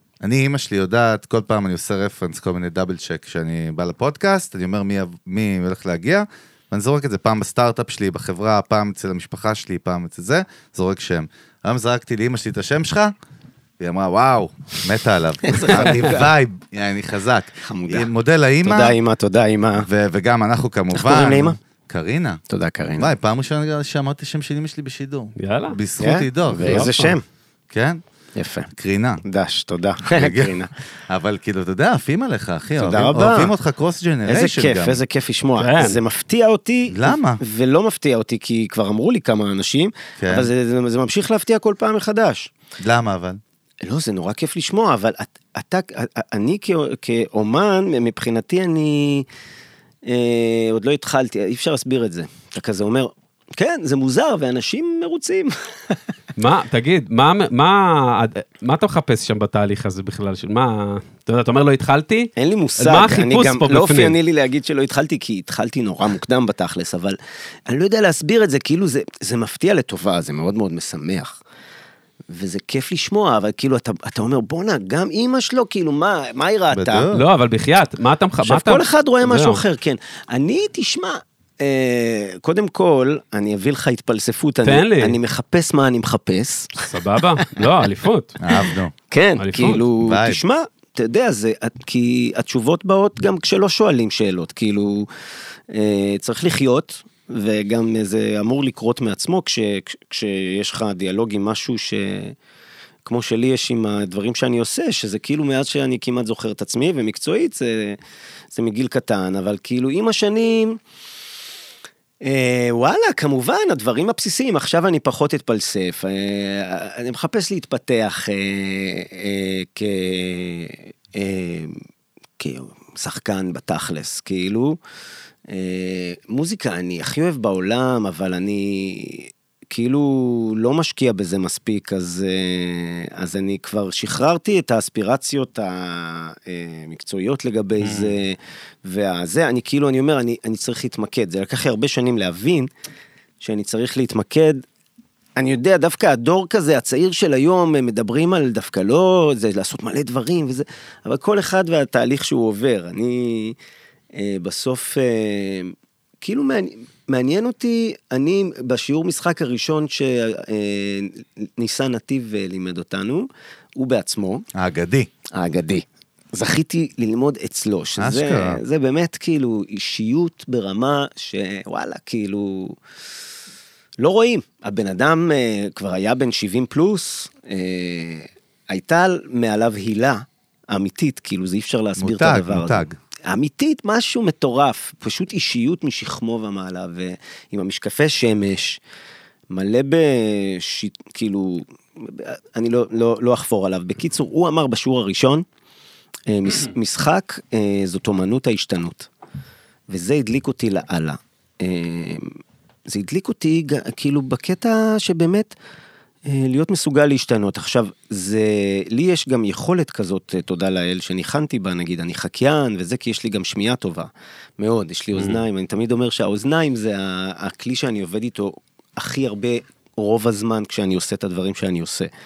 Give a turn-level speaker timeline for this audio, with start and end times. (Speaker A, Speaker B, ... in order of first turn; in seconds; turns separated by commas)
Speaker A: 0.2-13.1, Speaker A: 13.8-18.9, Speaker B: 15.5-16.2, Speaker C: 15.8-16.1, Speaker B: 17.6-18.1, Speaker B: 18.6-19.9, Speaker A: 19.8-22.4, Speaker B: 20.9-21.6, Speaker B: 22.5-23.1, Speaker A: 23.0-26.9, Speaker C: 25.4-25.8, Speaker B: 26.0-27.2, Speaker C: 26.6-27.1, Speaker A: 27.7-28.0, Speaker B: 28.4-28.7, Speaker A: 28.7-29.2, Speaker B: 29.2-30.7, Speaker A: 30.0-30.5, Speaker A: 31.1-35.0, Speaker B: 32.8-33.5, Speaker B: 34.2-42.5, Speaker C: 35.6-36.0, Speaker A: 36.9-37.4, Speaker A: 40.2-40.5, Speaker A: 42.8-43.4, Speaker B: 43.8-49.2, Speaker B: 50.0-56.0, Speaker C: 56.4-64.2, Speaker B: 62.4-71.4, Speaker B: 72.3-77.1, Speaker A: 76.7-77.3, Speaker C: 77.1-79.6, Speaker B: 78.4-87.8, Speaker C: 84.6-85.2, Speaker C: 86.9-88.4, Speaker A: 88.4-88.9, Speaker B: 89.1-95.1, Speaker C: 89.4-89.8, Speaker A: 90.0-90.4, Speaker B: 95.7-102.4, Speaker B: 103.0-108.0, Speaker B: 108.5-110.8, Speaker B: 112.2-121.8, Speaker B: 122.4-124.8, Speaker B: 125.5-142.7, Speaker C: 137.8-138.1, Speaker B: 143.4-144.6, Speaker B: 145.4-153.6, Speaker B: 154.1-164.5, Speaker A: 164.5-165.1, Speaker B: 165.3-172.8, Speaker A: 168.0-168.6, Speaker B: 174.0-188.8, Speaker A: 182.0-183.0, Speaker B: 189.5-195.4, Speaker B: 196.3-199.1, Speaker B: 199.9-202.3, Speaker B: 202.9-205.5, Speaker B: 206.2-222.1, Speaker C: 215.1-215.4